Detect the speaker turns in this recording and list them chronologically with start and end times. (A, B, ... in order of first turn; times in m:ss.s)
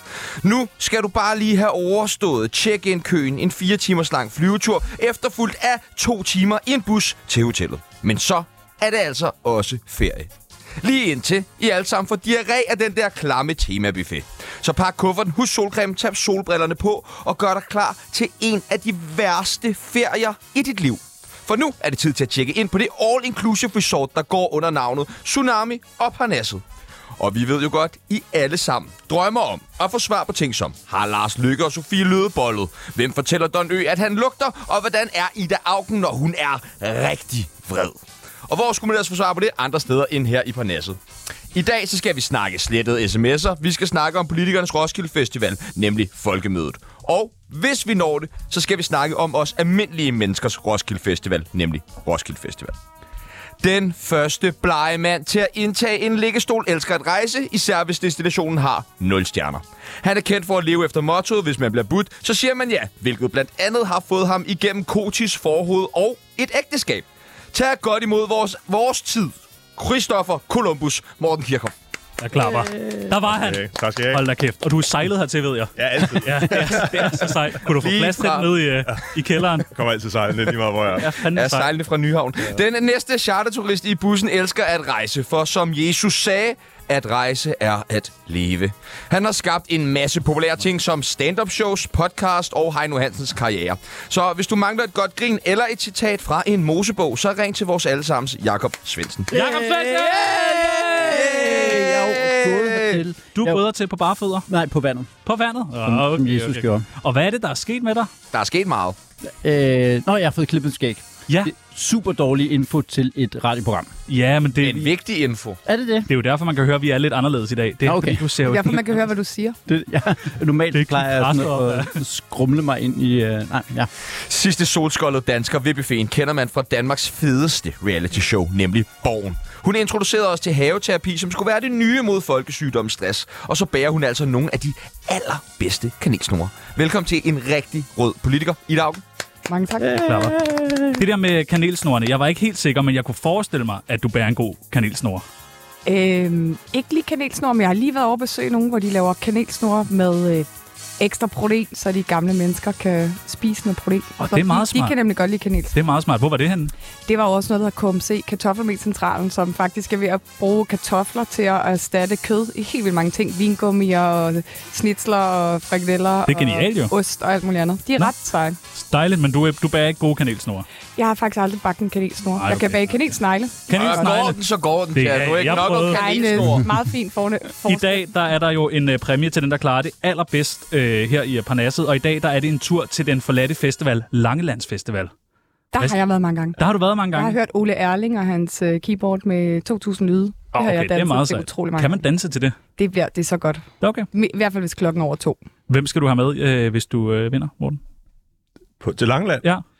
0:00.4-0:10.3 A
0:10.8-0:26.6 A
0:27.2-0:41.0 A
0:41.5-0:52.8 A
0:53.6-1:11.7 A
1:12.2-1:19.7 B
1:12.6-1:12.9 C
1:13.2-1:14.2 D
1:15.8-1:17.5 D
1:17.7-1:18.6 A
1:19.6-1:21.2 D
1:21.0-1:21.7 B
1:21.3-1:39.4 A
1:39.3-1:43.6 C
1:39.3-1:41.4 B
1:40.1-1:43.0 A
1:43.3-1:44.5 B
1:44.5-1:45.1 C
1:45.3-1:48.1 B
1:45.8-1:46.9 C
1:48.3-1:49.0 A
1:49.4-1:53.9 C
1:54.1-1:54.9 B
1:54.6-1:55.6 A
1:55.7-1:56.1 C
1:56.1-1:59.0 B
1:57.8-1:58.2 C
1:58.4-1:59.6 E
1:59.7-2:03.9 C
2:00.7-2:02.0 B
2:04.3-2:19.0 A
2:19.5-2:20.1 E
2:19.8-2:21.0 C
2:20.1-2:20.4 B
2:20.9-2:25.2 B
2:25.9-2:30.5 E
2:31.0-2:35.8 E
2:34.2-2:35.0 B
2:35.7-2:36.7 B
2:37.1-2:48.6 E
2:46.3-2:46.9 B
2:48.8-2:50.7 B
2:51.0-2:53.8 E
2:52.4-2:53.0 B
2:53.7-2:56.7 B
2:53.7-2:56.7 A
2:55.9-2:58.0 E
2:57.6-3:05.1 B
3:05.7-3:06.6 E
3:06.6-3:07.4 B
3:07.1-3:12.0 E
3:10.5-3:12.6 B
3:12.8-3:15.4 E
3:13.8-3:14.1 B
3:15.7-3:17.8 B
3:18.8-3:19.5 D